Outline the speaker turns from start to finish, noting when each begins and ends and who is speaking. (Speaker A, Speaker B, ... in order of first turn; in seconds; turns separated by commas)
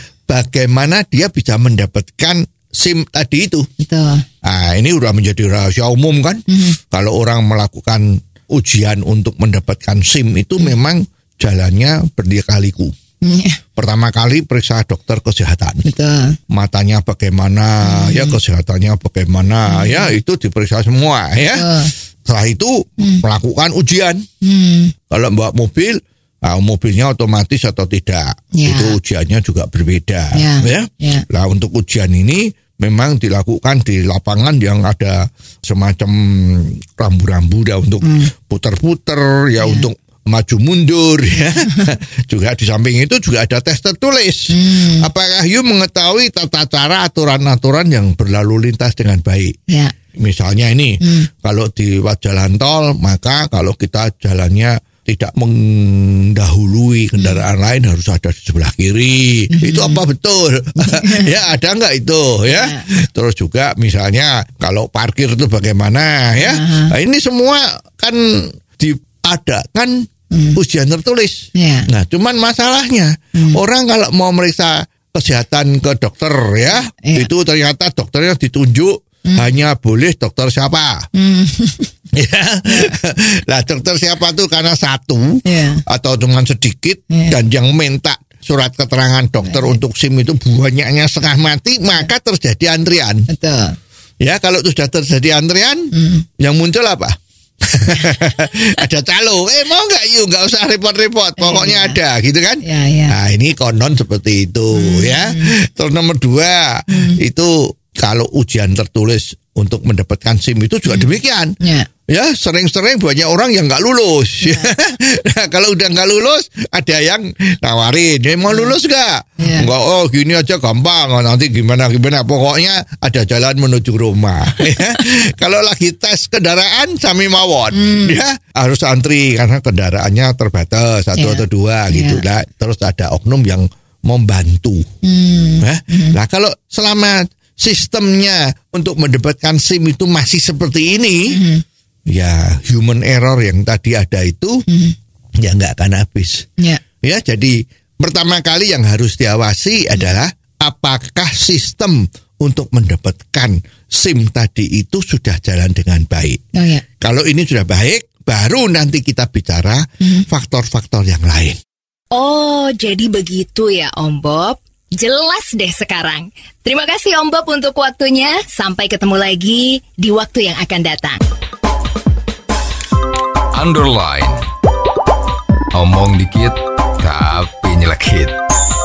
Speaker A: 0.3-3.7, Speaker B: 3.8-4.2, Speaker A: 4.4-12.9, Speaker B: 6.5-6.8, Speaker B: 13.2-13.6, Speaker A: 13.8-15.8, Speaker B: 15.8-16.4, Speaker A: 16.5-24.3, Speaker B: 17.8-18.4, Speaker B: 19.7-20.1, Speaker B: 21.5-21.9, Speaker B: 24.4-24.9, Speaker A: 25.1-49.5, Speaker B: 28.6-29.0, Speaker B: 30.4-31.2, Speaker B: 38.0-38.3, Speaker B: 39.6-39.9, Speaker B: 44.5-45.1, Speaker B: 49.7-49.9, Speaker A: 50.2-81.1, Speaker B: 51.0-51.3, Speaker B: 59.5-60.0, Speaker B: 60.8-61.4, Speaker B: 62.5-62.9, Speaker B: 66.4-66.9, Speaker B: 70.3-70.6, Speaker B: 71.5-71.9, Speaker B: 73.3-73.6, Speaker B: 77.0-77.3, Speaker B: 79.2-79.5, Speaker B: 81.2-81.9, Speaker A: 82.1-93.3, Speaker B: 82.7-83.0, Speaker B: 85.4-85.8, Speaker B: 87.1-87.4, Speaker B: 89.4-89.8, Speaker B: 93.3-93.8, Speaker A: 94.2-97.2, Speaker B: 95.9-96.3, Speaker A: 97.7-111.5, Speaker B: 101.4-102.0, Speaker B: 102.6-103.2, Speaker B: 104.8-105.5, Speaker B: 106.9-107.2, Speaker B: 110.9-111.9, Speaker A: 112.1-134.9, Speaker B: 114.4-114.7, Speaker B: 118.5-118.7, Speaker B: 119.4-119.7, Speaker B: 127.7-128.2, Speaker B: 131.2-132.2, Speaker B: 135.0-136.2, Speaker A: 135.6-141.4, Speaker B: 141.3-141.6, Speaker A: 142.1-144.6, Speaker B: 144.7-145.0, Speaker A: 145.4-146.5, Speaker A: 147.0-156.4, Speaker B: 156.6-156.8, Speaker A: 157.0-161.6, Speaker B: 162.1-171.2, Speaker C: 173.5-174.4, Speaker C: 175.7-178.4